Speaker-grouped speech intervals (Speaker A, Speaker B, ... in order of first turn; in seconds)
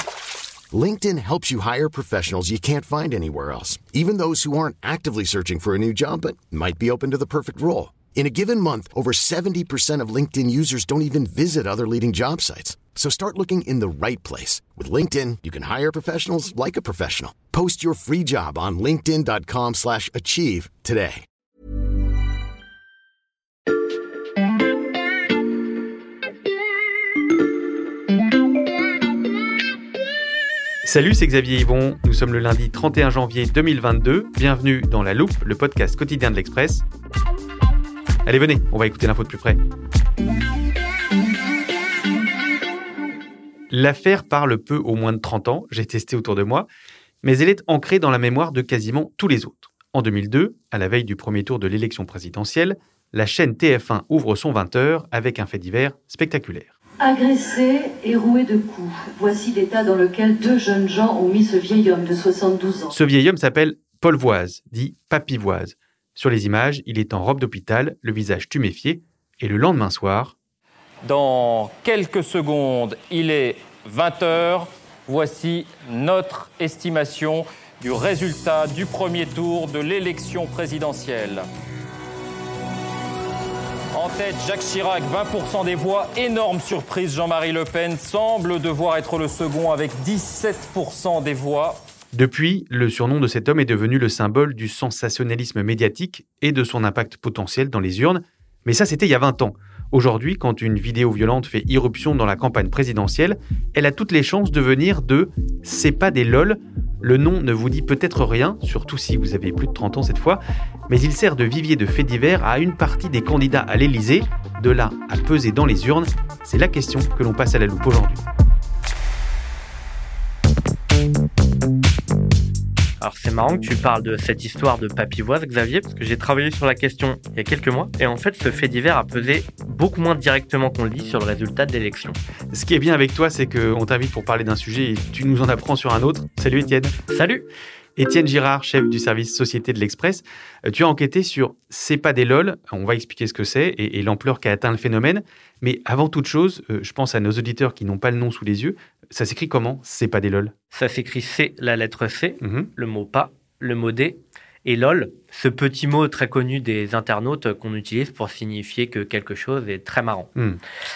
Speaker A: 0.7-21.2
Speaker B: 30.8-36.8, 38.2-39.6, 43.7-46.7, 47.2-56.7, 62.9-70.3, 92.1-118.2, 132.5-136.9, 138.0-150.5, 152.4-152.7
Speaker C: 57.0-62.9
Speaker D: 71.0-81.4, 83.9-91.8
Speaker E: 123.0-132.2, 137.1-137.4, 150.7-160.3